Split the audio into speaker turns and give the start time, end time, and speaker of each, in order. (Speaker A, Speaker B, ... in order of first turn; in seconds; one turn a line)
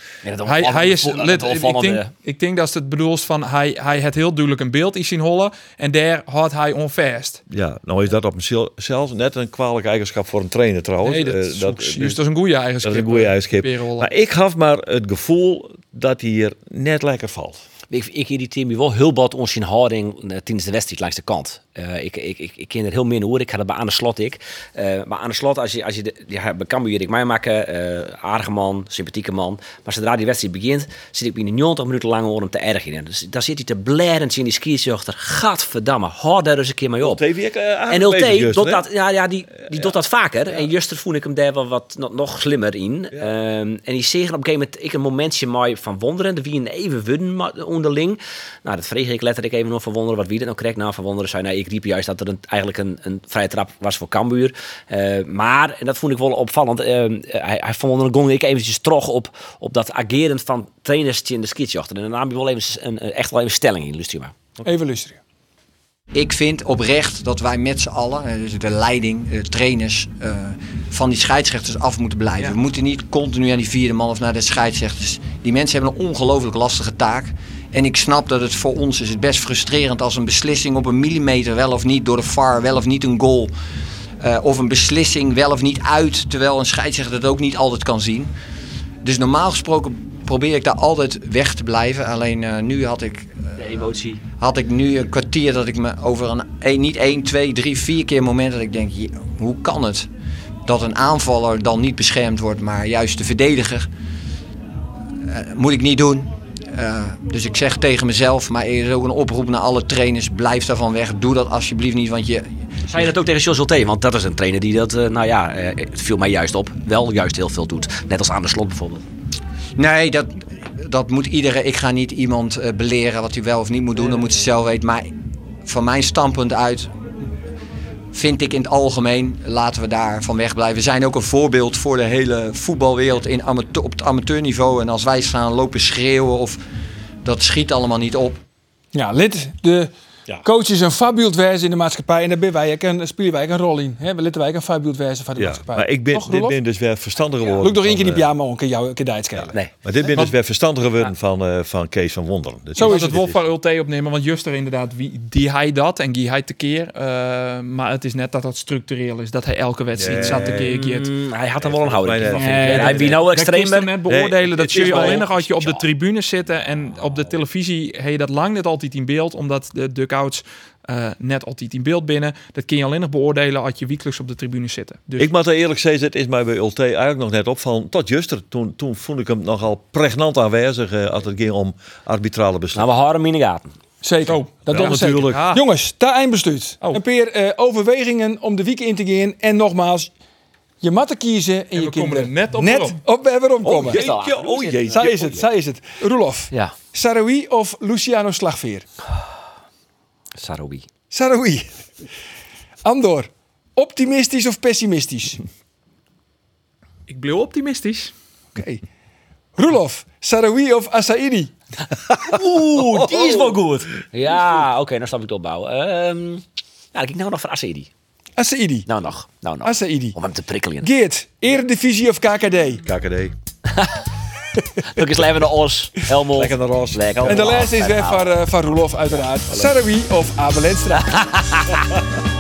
Speaker A: 0.2-2.1
Speaker B: 0.5-7.4
Speaker C: 7.5-12.2
Speaker B: 11.0-14.1
Speaker C: 12.8-17.7
Speaker A: 17.9-37.2
Speaker C: 37.0-38.9
Speaker A: 37.9-64.3
Speaker C: 39.7-40.0
Speaker D: 64.6-65.2
Speaker E: 66.1-83.5
Speaker E: 84.2-88.3
Speaker E: 89.0-93.5
Speaker A: 93.6-94.2
Speaker E: 94.4-100.1
Speaker E: 100.7-103.9
Speaker E: 105.3-112.5
Speaker A: 112.9-119.0
Speaker E: 119.8-125.1
Speaker E: 125.7-126.9
Speaker E: 128.1-136.6
Speaker E: 137.2-138.4
Speaker D: 138.9-139.9
Speaker D: 140.4-146.6
Speaker C: 145.4-148.3
Speaker D: 147.6-149.7
Speaker C: 149.3-153.4
Speaker D: 152.8-153.2
Speaker B: 152.8-161.1
Speaker C: 160.0-160.8
Speaker A: 160.1-163.9
Speaker C: 161.6-163.2
Speaker B: 162.3-175.3
Speaker C: 164.1-165.7
Speaker A: 164.7-165.2
Speaker C: 175.2-182.9
Speaker A: 182.8-183.8
Speaker D: 184.0-190.1
Speaker B: 184.3-185.7
Speaker C: 184.7-185.4
Speaker D: 190.8-194.0
Speaker B: 191.8-193.0
Speaker C: 193.7-195.4
Speaker A: 193.7-195.5
Speaker D: 194.9-198.9
Speaker A: 200.4-200.9
Speaker D: 201.1-201.7
Speaker D: 202.8-205.4
Speaker B: 207.1-208.1
Speaker D: 208.6-208.8
Speaker D: 209.6-211.5
Speaker A: 212.2-217.9
Speaker C: 212.8-213.6
Speaker D: 218.4-218.9
Speaker A: 218.9-220.9
Speaker D: 219.6-220.2
Speaker D: 220.8-222.8
Speaker C: 222.8-223.3
Speaker A: 223.7-224.0
Speaker A: 224.8-228.4
Speaker C: 226.3-227.7
Speaker D: 227.3-231.1
Speaker A: 230.9-232.0